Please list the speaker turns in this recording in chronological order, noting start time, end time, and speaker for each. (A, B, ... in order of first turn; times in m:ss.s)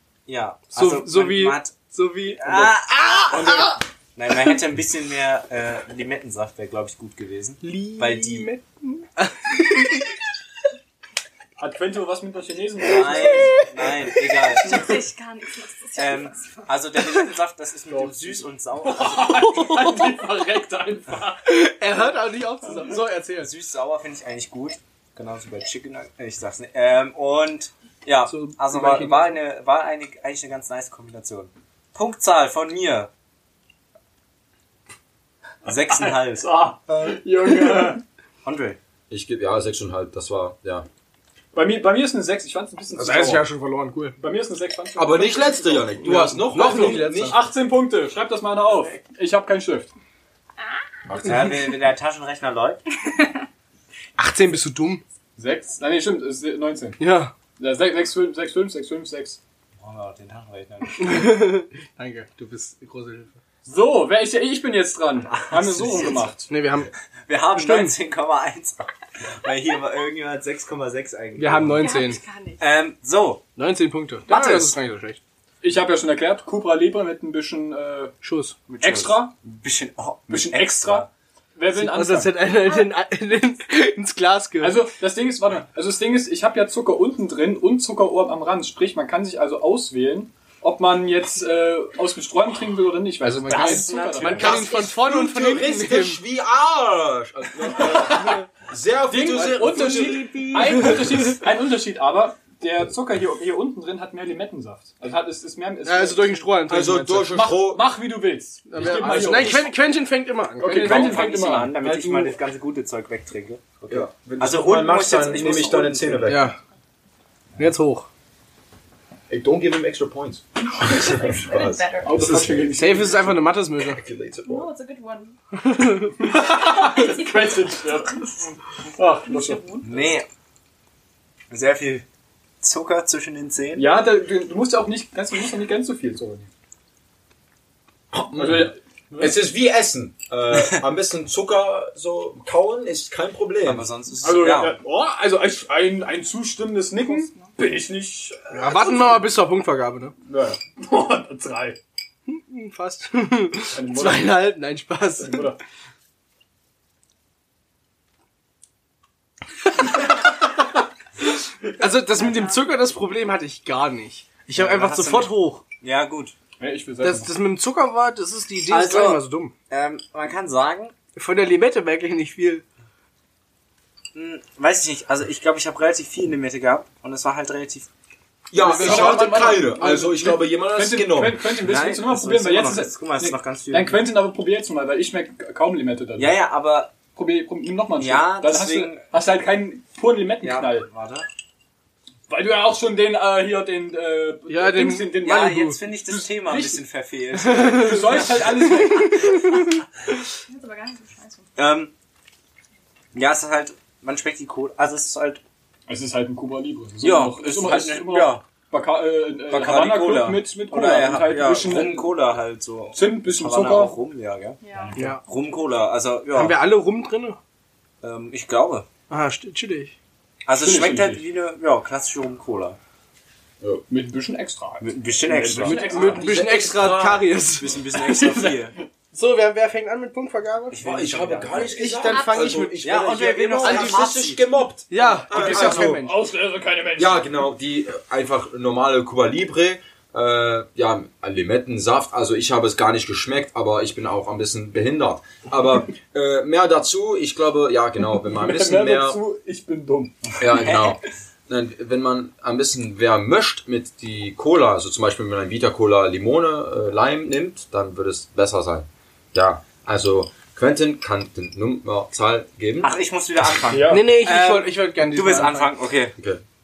0:00.3-0:01.8 A
0:00.7-0:03.7 B
0:02.3-0:08.5 A
0:03.3-0:03.8 C
0:07.6-0:10.1 B
0:11.6-0:13.7 C
0:12.8-0:15.0 A
0:14.5-0:16.7 D
0:16.0-0:19.5 A
0:17.9-0:21.4 C
0:19.5-0:20.1 B
0:21.4-0:23.5 B
0:23.4-0:33.1 A
0:28.2-0:29.4 B
0:35.6-0:37.1 A
0:35.9-0:38.0 C
0:38.4-0:38.8 A
0:39.1-0:40.9 E
0:41.5-0:43.4 C
0:42.9-0:44.2 B
0:44.2-0:49.9 C
0:45.0-0:47.4 E
0:46.0-0:47.4 B
0:51.1-0:51.5 E
0:51.1-0:52.8 A
0:54.2-0:55.0 B
0:55.4-0:57.0 C
0:57.0-0:57.3 B
0:57.6-0:59.4 C
0:59.8-1:01.3 A
1:01.0-1:03.3 B
1:03.6-1:06.5 C
1:05.3-1:06.3 A
1:06.5-1:06.9 B
1:07.3-1:08.9 A
1:07.5-1:08.0 B
1:09.4-1:11.9 A
1:11.4-1:12.2 B
1:11.7-1:12.6 D
1:12.6-1:13.4 A
1:13.6-1:15.2 B
1:14.3-1:14.8 A
1:15.6-1:18.1 C
1:18.2-1:18.6 B
1:18.7-1:21.1 A
1:18.8-1:19.3 C
1:20.3-1:22.4 C
1:21.7-1:24.8 B
1:24.6-1:34.6 C
1:33.2-1:36.2 B
1:33.4-1:34.7 A
1:34.4-1:40.9 E
1:39.1-1:46.6 C
1:39.8-1:41.0 A
1:45.8-1:47.3 B
1:46.7-1:47.9 E
1:47.3-1:49.7 C
1:48.7-1:51.1 B
1:48.8-1:49.7 E
1:50.6-1:52.4 C
1:50.6-1:56.3 A
1:53.9-1:56.5 E
1:56.3-1:56.6 B
1:57.6-1:58.1 B
1:59.3-2:02.9 E
2:00.7-2:02.2 D
2:02.0-2:03.4 C
2:02.7-2:04.0 B
2:03.8-2:04.7 E
2:04.4-2:05.4 D
2:05.6-2:06.1 B
2:06.2-2:09.8 C
2:06.7-2:07.8 D
2:09.3-2:10.1 D
2:09.8-2:10.3 A
2:11.5-2:12.0 A
2:12.6-2:13.9 A
2:13.8-2:16.5 C
2:18.1-2:23.9 E
2:18.3-2:19.4 C
2:23.6-2:24.8 A
2:24.2-2:29.2 C
2:27.0-2:27.5 D
2:28.5-2:30.1 B
2:30.2-2:31.8 C
2:32.3-2:35.5 B
2:33.7-2:34.5 C
2:35.2-2:35.6 C
2:41.7-2:45.6 B
2:44.5-2:46.3 A
2:46.6-2:47.3 C
2:47.0-2:49.5 B
2:48.7-2:50.9 A
2:51.2-2:52.6 B
2:54.1-2:57.9 A
2:58.5-3:01.4 E
2:58.6-3:06.4 C
2:58.8-2:59.2 B
3:01.6-3:04.0 A
3:06.2-3:06.9 A
3:07.1-3:10.9 C
3:08.0-3:09.0 A
3:10.4-3:11.3 A
3:12.3-3:16.8 C
3:14.5-3:15.8 B
3:15.2-3:18.6 A
3:17.5-3:18.0 B
3:17.6-3:19.4 C
3:18.8-3:19.5 B
3:20.5-3:21.5 D
3:21.6-3:21.9 A
3:23.1-3:25.4 A
3:25.9-3:32.2 C
3:27.0-3:28.4 A
3:29.5-3:36.6 A
3:32.9-3:34.0 C
3:34.6-3:35.1 D
3:34.7-3:35.0 C
3:35.0-3:35.2 B
3:36.3-3:37.4 B
3:38.0-3:38.9 A
3:39.1-3:39.9 B
3:40.4-3:42.8 A
3:40.5-3:41.2 C
3:43.9-3:46.4 C
3:44.8-3:46.2 A
3:45.6-3:47.7 B
3:46.1-3:47.3 E
3:47.6-3:48.7 A
3:47.9-3:48.8 C
3:49.1-3:50.8 B
3:50.7-3:51.7 A
3:50.8-3:56.0 E
3:51.6-3:52.8 B
3:52.1-3:52.6 D
3:52.8-3:54.4 A
3:53.6-3:54.1 B
3:54.9-3:56.2 B
3:55.2-3:57.4 C
3:57.0-4:09.2 E
4:08.2-4:10.2 C
4:10.4-4:22.9 E
4:10.4-4:11.0 A
4:22.8-4:26.1 A
4:23.7-4:24.1 C
4:23.9-4:25.7 B
4:26.2-4:26.4 E